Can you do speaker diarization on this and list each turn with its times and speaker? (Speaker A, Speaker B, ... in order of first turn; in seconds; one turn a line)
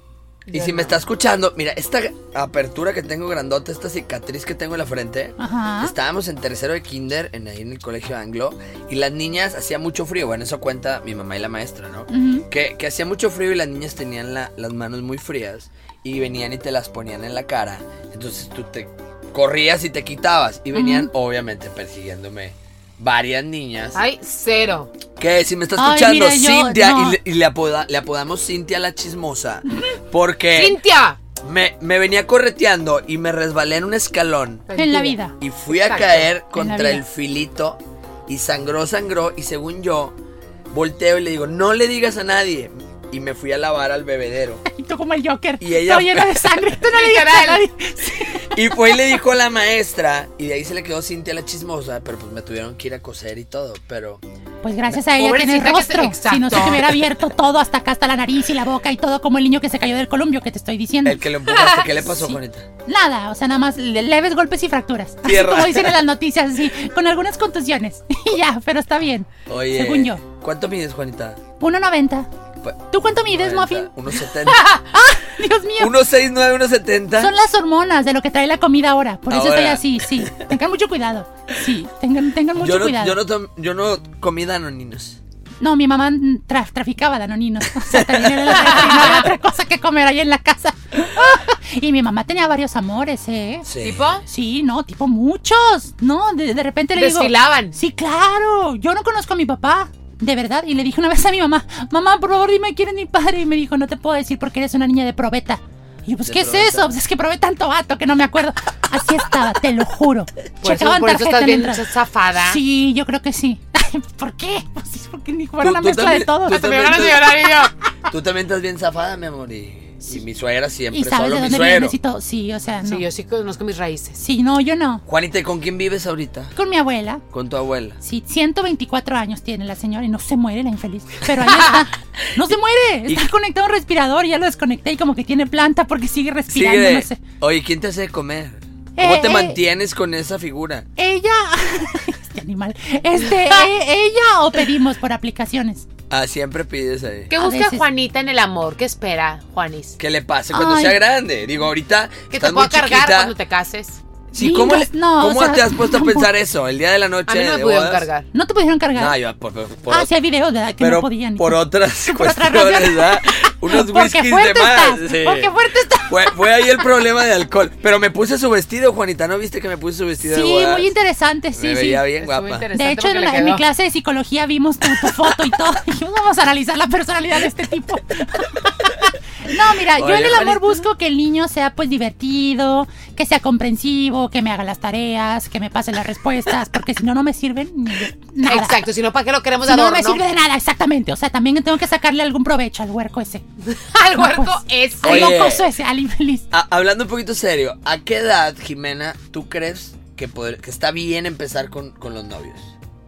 Speaker A: 0.5-1.0
Speaker B: 0.5-24.0
Speaker C: 5.4-5.9
Speaker C: 12.1-12.5
Speaker C: 20.7-21.1
Speaker A: 23.9-24.9
Speaker B: 25.2-30.8
Speaker C: 25.8-27.2
Speaker A: 30.5-31.2
Speaker B: 31.4-34.7
Speaker A: 34.7-36.3
Speaker C: 34.8-35.3
Speaker B: 35.4-40.2
Speaker C: 36.5-37.0
Speaker B: 40.7-44.6
Speaker C: 44.6-48.6
Speaker B: 45.6-46.7
Speaker A: 46.8-47.6
Speaker B: 48.5-54.2
Speaker C: 54.6-61.2
Speaker A: 55.2-57.0
Speaker B: 61.0-62.7
Speaker A: 61.5-61.9
Speaker C: 62.0-70.2
Speaker B: 65.2-66.0
Speaker B: 69.5-71.4
Speaker C: 71.6-72.3
Speaker B: 72.6-74.7
Speaker C: 72.9-73.9
Speaker C: 74.9-76.0
Speaker B: 75.8-77.3
Speaker C: 77.2-83.2
Speaker B: 79.3-80.5
Speaker B: 82.6-85.2
Speaker C: 85.6-93.7
Speaker B: 87.9-88.7
Speaker A: 88.5-89.3
Speaker B: 93.7-94.0
Speaker A: 93.8-94.2
Speaker C: 94.3-111.8
Speaker A: 97.0-97.8
Speaker B: 106.2-106.9
Speaker A: 110.6-112.6
Speaker C: 112.4-116.8
Speaker B: 115.6-117.3
Speaker A: 116.5-117.7
Speaker B: 118.1-122.0
Speaker C: 120.9-123.0
Speaker A: 122.8-124.2
Speaker C: 124.2-125.0
Speaker B: 125.1-126.5
Speaker C: 126.5-127.2
Speaker B: 127.3-128.0
Speaker C: 128.0-137.2
Speaker A: 131.5-131.8
Speaker B: 136.5-140.9
Speaker C: 139.0-139.6
Speaker C: 141.0-145.9
Speaker A: 143.4-143.7
Speaker B: 146.1-147.3
Speaker A: 147.3-150.0
Speaker C: 147.4-147.9
Speaker B: 150.0-153.3
Speaker C: 150.5-151.0
Speaker A: 152.3-154.0
Speaker B: 154.3-158.1
Speaker C: 154.4-156.3
Speaker A: 157.3-158.3
Speaker C: 158.3-159.2
Speaker B: 158.9-160.1
Speaker C: 159.9-166.3
Speaker B: 160.8-165.5
Speaker B: 166.1-170.9
Speaker C: 170.2-172.1
Speaker B: 171.6-172.7
Speaker A: 172.2-173.6
Speaker C: 172.7-188.8
Speaker B: 180.0-180.8
Speaker A: 188.5-190.2
Speaker C: 189.7-193.4
Speaker A: 193.7-195.4
Speaker C: 194.2-196.5
Speaker B: 195.0-195.7
Speaker B: 196.5-202.7